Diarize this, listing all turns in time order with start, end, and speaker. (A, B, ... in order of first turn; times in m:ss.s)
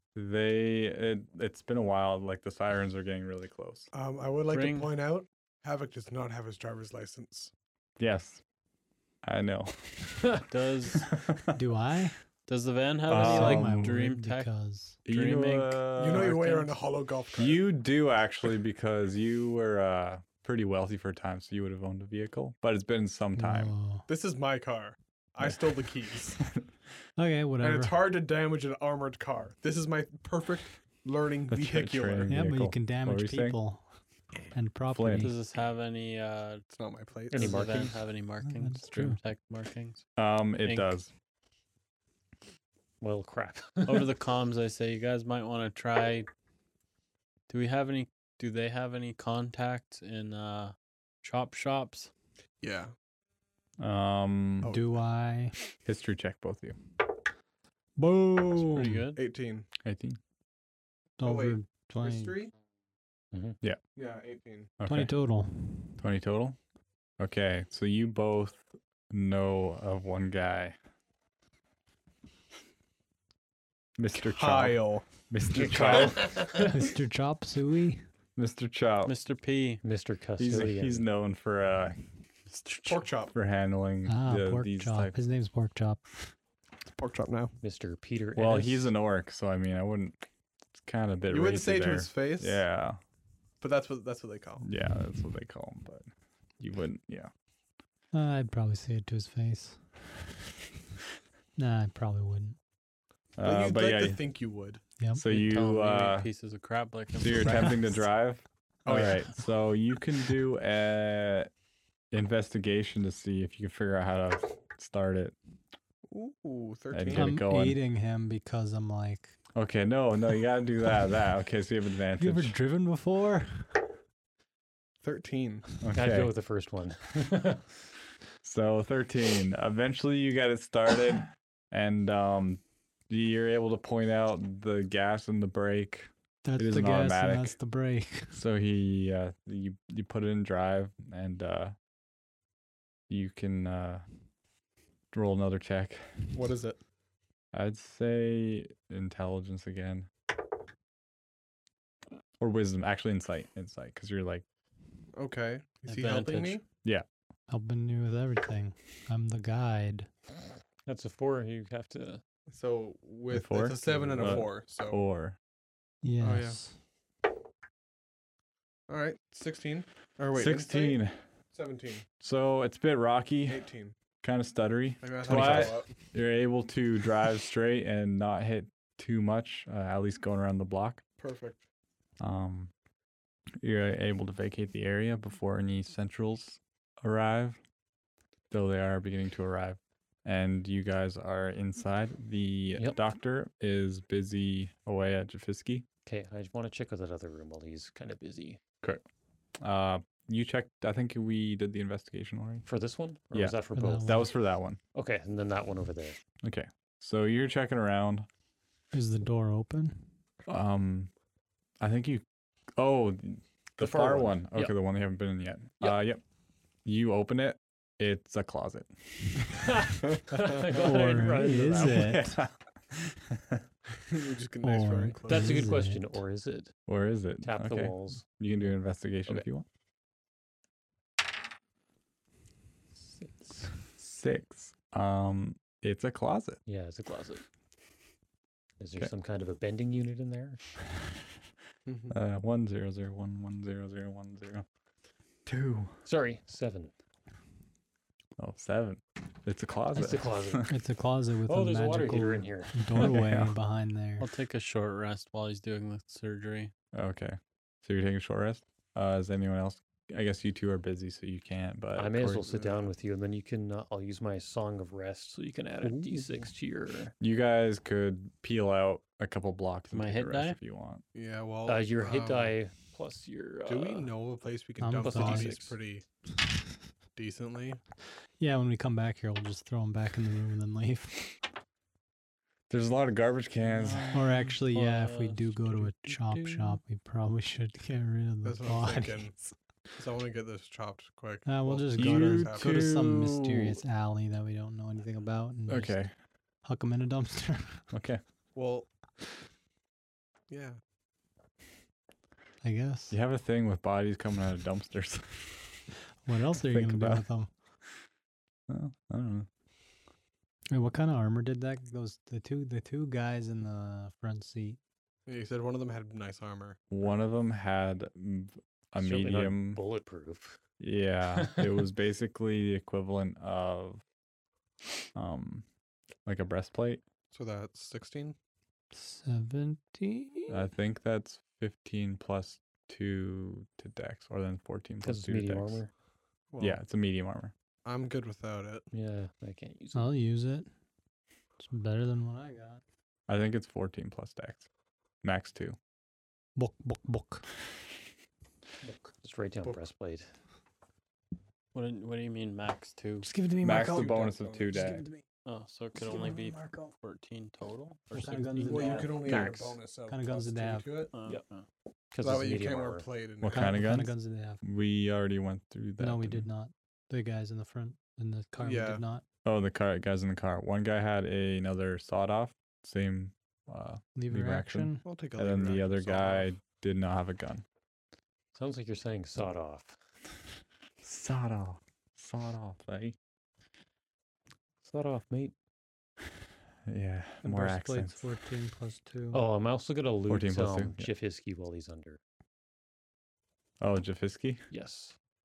0:00.2-0:03.9 A
0:03.9-0:07.5 B
0:04.5-0:04.9 C
0:08.0-0:08.4 A
0:09.2-0:10.3 A
0:10.5-0:11.1 C
0:11.1-0:11.4 A
0:11.6-0:12.2 D
0:12.5-0:16.7 C
0:13.1-0:14.0 A
0:13.1-0:15.0 D
0:15.1-0:16.4 A
0:16.0-0:17.6 B
0:17.4-0:23.8 A
0:23.4-0:24.1 D
0:24.1-0:26.4 B
0:26.4-0:26.6 A
0:27.2-0:28.0 D
0:27.6-0:32.4 B
0:31.5-0:33.6 A
0:32.3-0:33.9 D
0:34.5-0:35.4 D
0:34.9-0:35.3 A
0:35.2-0:36.7 C
0:36.7-0:38.0 B
0:37.3-0:38.0 E
0:37.3-0:40.1 C
0:38.4-0:39.2 D
0:40.2-0:41.1 A
0:40.6-0:40.9 C
0:43.0-0:44.1 E
0:43.9-0:46.3 C
0:47.5-0:52.1 C
0:52.6-0:52.9 B
0:53.8-0:54.7 A
0:54.7-0:55.6 D
0:55.8-0:56.8 A
0:58.0-0:59.1 D
0:58.6-0:59.2 C
0:59.2-0:59.7 B
0:59.8-1:00.2 A
1:01.2-1:02.4 D
1:01.2-1:02.5 B
1:03.3-1:03.6 E
1:04.0-1:04.7 B
1:04.8-1:05.1 A
1:04.8-1:06.0 D
1:06.0-1:06.6 A
1:07.2-1:10.8 A
1:14.0-1:16.4 A
1:14.2-1:16.3 B
1:15.5-1:16.8 E
1:16.5-1:18.1 D
1:18.4-1:19.2 A
1:19.0-1:19.8 C
1:19.8-1:21.1 E
1:20.4-1:25.2 A
1:22.8-1:23.3 B
1:24.1-1:26.1 D
1:26.9-1:27.6 B
1:27.6-1:28.9 E
1:28.4-1:30.2 A
1:30.8-1:33.0 A
1:31.3-1:32.6 B
1:33.6-1:34.7 B
1:34.6-1:36.1 A
1:36.6-1:37.3 A
1:38.1-1:39.8 D
1:41.6-1:42.6 D
1:43.4-1:44.2 A
1:43.4-1:44.8 B
1:45.2-1:46.3 A
1:45.2-1:48.0 C
1:47.2-1:51.5 A
1:48.9-1:49.2 B
1:52.1-1:55.4 A
1:56.1-1:57.4 B
1:56.9-1:57.8 A
1:57.1-1:59.4 D
1:59.6-2:02.6 A
2:02.2-2:03.8 D
2:05.0-2:05.7 B
2:05.8-2:06.3 A
2:05.9-2:07.8 E
2:08.4-2:17.6 A
2:16.4-2:18.4 D
2:18.3-2:21.8 A
2:23.1-2:24.0 A
2:25.1-2:26.1 A
2:26.3-2:26.8 B
2:27.5-2:30.1 A
2:32.4-2:34.4 A
2:35.2-2:36.6 B
2:35.9-2:36.6 C
2:37.5-2:40.1 D
2:40.9-2:42.2 E
2:42.5-2:45.0 B
2:43.3-2:45.4 A
2:46.0-2:46.8 D
2:46.2-2:46.6 B
2:48.9-2:51.0 B
2:50.3-2:51.2 A
2:51.5-2:52.1 B
2:52.2-2:53.6 A
2:53.5-2:54.0 B
2:54.2-3:01.0 A
2:55.0-2:56.0 B
3:01.2-3:01.6 B
3:02.2-3:02.7 A
3:03.6-3:07.6 A
3:08.5-3:15.9 A
3:16.1-3:18.6 E
3:19.6-3:22.6 A
3:22.7-3:24.3 E
3:23.3-3:24.8 A
3:23.8-3:24.3 D
3:25.0-3:26.2 E
3:26.4-3:28.3 A
3:28.9-3:30.1 D
3:30.5-3:31.1 A
3:31.8-3:32.2 A
3:32.8-3:36.2 A
3:33.8-3:34.7 E
3:36.8-3:40.1 A
3:39.6-3:42.2 E
3:40.7-3:42.4 D
3:41.8-3:43.6 A
3:44.1-3:45.8 B
3:44.6-3:46.0 D
3:45.3-3:46.7 E
3:46.9-3:49.7 A
3:47.4-3:48.2 E
3:53.2-3:53.7 E
3:54.0-3:56.6 A
3:56.7-3:57.5 E
3:58.8-4:00.6 E
4:01.9-4:02.2 B
4:02.1-4:04.7 A
4:05.5-4:06.0 A
4:06.1-4:06.9 E
4:08.4-4:10.7 A
4:09.9-4:10.7 E
4:10.7-4:14.3 D
4:11.5-4:13.2 E
4:13.0-4:13.5 A
4:14.2-4:16.7 C
4:16.9-4:22.5 A
4:22.0-4:27.1 E
4:22.5-4:22.9 B
4:27.2-4:31.0 A
4:29.9-4:30.6 C
4:31.1-4:32.5 B
4:31.6-4:34.1 E
4:33.7-4:36.0 B
4:34.8-4:35.6 D
4:35.0-4:35.8 E
4:37.2-4:37.8 B
4:38.4-4:41.4 D
4:42.7-4:44.1 A
4:43.6-4:46.8 C
4:44.1-4:49.5 D
4:48.4-4:49.4 B
4:50.0-4:52.8 B
4:51.4-4:56.0 D
4:52.0-4:53.8 A
4:55.7-4:56.1 A
4:56.6-4:57.8 D
4:57.9-4:58.2 A
4:58.6-4:58.9 B
5:00.5-5:00.8 B
5:02.6-5:03.2 D
5:03.1-5:05.8 A
5:06.2-5:07.5 D
5:06.6-5:07.3 A
5:08.7-5:09.5 A
5:10.7-5:14.8 D
5:15.3-5:16.8 B
5:16.9-5:19.8 A
5:19.0-5:20.6 E
5:20.8-5:24.0 A
5:25.2-5:25.6 A
5:26.2-5:27.0 A
5:27.3-5:28.4 B
5:28.9-5:30.6 D
5:30.5-5:35.8 A
5:35.0-5:35.9 E
5:36.5-5:36.8 B
5:36.6-5:37.5 A
5:37.8-5:38.9 B
5:38.9-5:40.1 E
5:39.9-5:40.7 D
5:41.6-5:42.8 D
5:43.3-5:44.7 A
5:45.2-5:45.8 A
5:46.6-5:47.4 D
5:48.8-5:50.3 E
5:51.7-5:53.3 C
5:53.2-5:55.3 D
5:53.6-5:55.0 A
5:53.7-5:54.8 B
5:55.4-5:59.3 C
5:56.0-5:56.9 D
5:58.1-5:59.5 D
5:58.6-6:01.1 B
5:59.3-5:59.7 E
6:00.1-6:00.9 D
6:01.1-6:01.7 C
6:02.1-6:03.1 E
6:02.2-6:03.8 B
6:03.4-6:06.5 A
6:03.5-6:04.6 D
6:06.0-6:09.2 D
6:08.6-6:09.0 B
6:09.4-6:17.6 A
6:14.2-6:15.0 D
6:15.0-6:16.5 B
6:18.5-6:20.0 E
6:21.0-6:23.2 A
6:24.8-6:25.5 E
6:26.9-6:28.2 A
6:27.4-6:29.4 D
6:29.3-6:32.2 E
6:30.3-6:31.1 A
6:33.8-6:34.6 A
6:34.7-6:35.2 E